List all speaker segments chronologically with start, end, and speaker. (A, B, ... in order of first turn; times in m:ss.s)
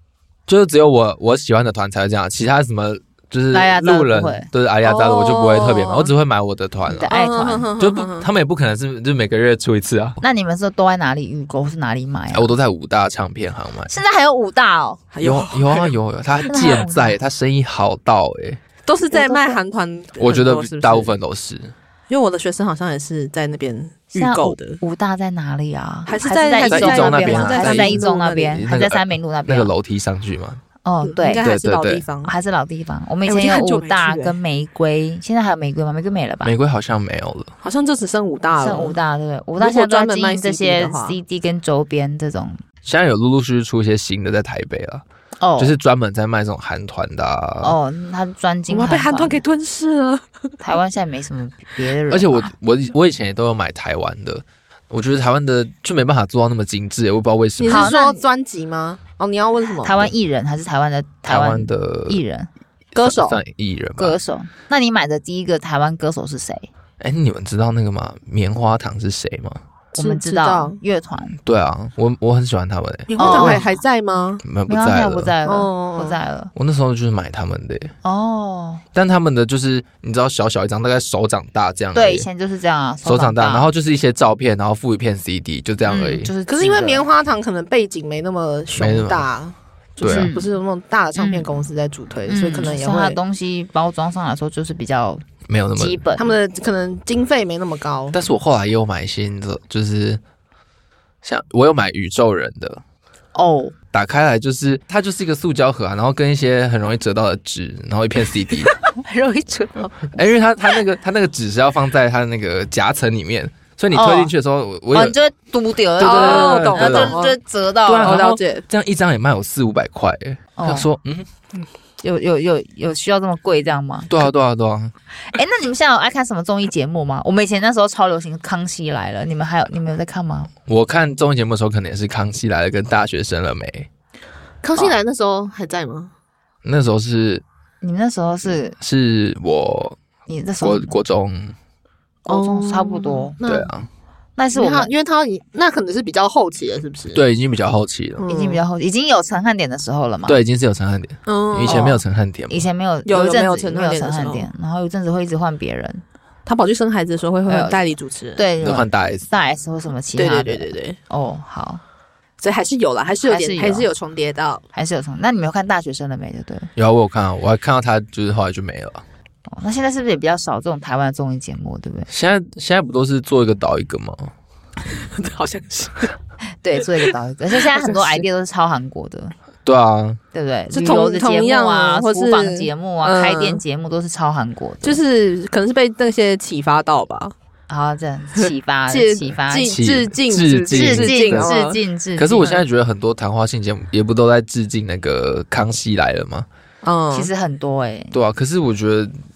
0:00.5-0:07.1 A
0:03.5-0:04.5 B
0:04.8-0:06.1 C
0:06.9-0:07.7 B
0:07.1-0:08.3 C
0:07.8-0:10.2 A
0:10.2-0:12.5 B
0:12.3-0:13.9 A
0:13.9-0:15.0 B
0:15.1-0:15.9 C
0:15.2-0:18.6 A
0:16.5-0:17.2 B
0:18.8-0:21.1 C
0:19.1-0:19.6 B
0:20.2-0:21.7 A
0:22.1-0:24.8 C
0:24.1-0:29.7 B
0:26.1-0:28.6 C
0:26.6-0:30.6 A
0:30.8-0:31.4 B
0:31.0-0:32.3 C
0:31.4-0:32.0 A
0:32.2-0:36.5 B
0:33.2-0:34.4 C
0:36.4-0:37.5 A
0:37.6-0:39.0 C
0:38.6-0:42.6 B
0:39.6-0:41.2 C
0:42.8-0:45.0 A
0:45.4-0:45.7 B
0:45.6-0:47.8 A
0:47.6-0:49.4 B
0:48.7-0:50.2 C
0:50.6-0:52.5 B
0:52.1-0:57.9 A
0:57.6-1:00.0 C
0:57.6-0:58.2 B
0:59.8-1:02.5 B
1:01.2-1:02.2 A
1:02.9-1:03.4 C
1:03.0-1:04.2 A
1:04.0-1:06.7 B
1:07.0-1:09.6 A
1:09.9-1:10.8 C
1:10.0-1:11.4 B
1:11.4-1:13.6 A
1:13.1-1:14.4 C
1:13.2-1:13.7 B
1:14.4-1:15.3 A
1:14.7-1:16.5 B
1:15.4-1:16.2 C
1:16.5-1:17.9 A
1:18.0-1:18.8 B
1:18.9-1:22.3 A
1:21.9-1:23.7 B
1:23.0-1:26.3 A
1:25.9-1:27.0 B
1:26.5-1:33.2 C
1:28.8-1:29.3 A
1:30.0-1:30.3 A
1:30.1-1:30.5 B
1:31.2-1:31.5 B
1:32.3-1:36.4 B
1:35.5-1:36.0 A
1:36.2-1:38.2 C
1:38.1-1:40.2 A
1:41.2-1:42.8 A
1:43.3-1:43.7 B
1:43.9-1:48.7 A
1:49.1-1:49.8 B
1:49.4-1:49.9 C
1:50.1-1:55.1 A
1:53.9-1:54.3 B
1:54.9-1:58.3 B
1:56.0-1:57.2 A
1:56.0-1:57.4 C
1:57.8-2:01.3 A
1:58.0-1:58.6 C
2:00.6-2:00.9 B
2:02.0-2:04.3 B
2:04.1-2:04.9 A
2:05.3-2:10.5 B
2:10.7-2:13.9 A
2:14.6-2:16.1 C
2:16.6-2:17.4 A
2:17.8-2:18.8 B
2:18.8-2:20.0 A
2:20.3-2:20.9 B
2:20.6-2:21.5 A
2:22.2-2:23.4 B
2:22.3-2:23.7 C
2:23.4-2:23.9 A
2:24.4-2:24.9 B
2:24.5-2:27.2 C
2:27.1-2:28.2 A
2:28.2-2:28.6 C
2:28.3-2:30.4 B
2:30.2-2:32.6 A
2:31.2-2:32.0 C
2:31.7-2:32.0 B
2:32.5-2:36.0 B
2:33.0-2:34.5 C
2:36.4-2:38.4 C
2:37.5-2:37.8 B
2:38.4-2:41.8 B
2:38.6-2:39.2 A
2:40.2-2:41.0 C
2:42.4-2:44.6 C
2:43.2-2:43.9 B
2:44.7-2:46.7 B
2:46.8-2:49.0 A
2:49.5-2:52.1 B
2:52.1-2:54.3 A
2:54.9-2:56.1 C
2:56.6-2:59.3 B
2:57.0-2:58.2 C
2:59.6-3:00.2 A
3:00.3-3:05.0 B
3:00.7-3:03.6 C
3:04.8-3:07.3 C
3:07.7-3:09.8 B
3:08.4-3:11.8 C
3:09.7-3:11.5 A
3:10.7-3:12.6 B
3:12.2-3:16.5 A
3:16.8-3:17.3 C
3:17.1-3:18.1 B
3:18.1-3:19.1 A